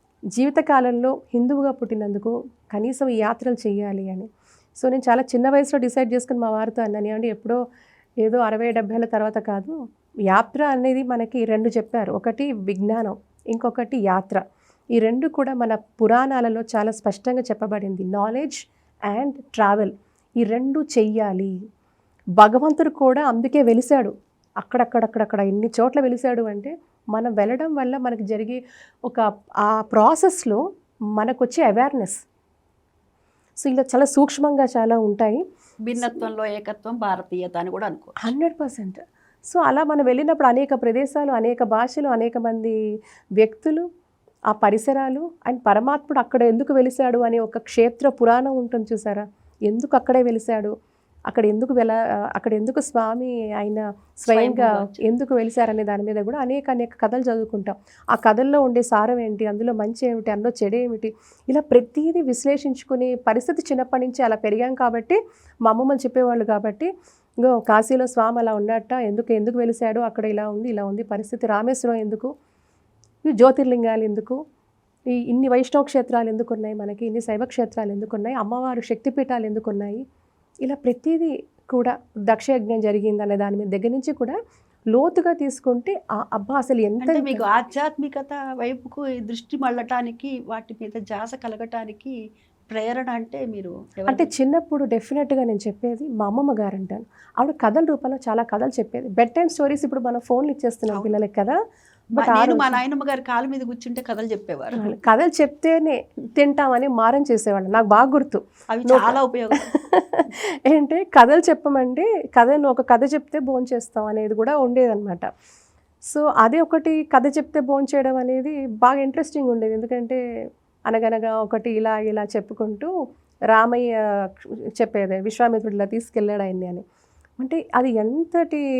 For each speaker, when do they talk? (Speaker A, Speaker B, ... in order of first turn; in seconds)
Speaker A: 0.3-4.3, 4.8-7.6, 8.2-9.7, 10.3-14.4, 15.0-18.6, 19.1-21.5, 22.4-30.6, 31.2-32.2, 33.6-35.4, 38.2-42.7, 43.4-43.8, 44.5-50.7, 51.3-66.9, 67.4-72.3, 73.3-74.4, 75.3-80.0, 80.6-84.4, 84.9-87.5, 94.1-101.6, 102.2-102.8, 104.8-109.2, 109.7-115.3, 116.1-120.2, 120.9-122.9, 123.5-126.8, 127.4-128.6
Speaker B: 35.9-38.3, 54.3-55.0, 87.0-92.1, 92.7-94.3, 102.2-104.9, 108.7-109.7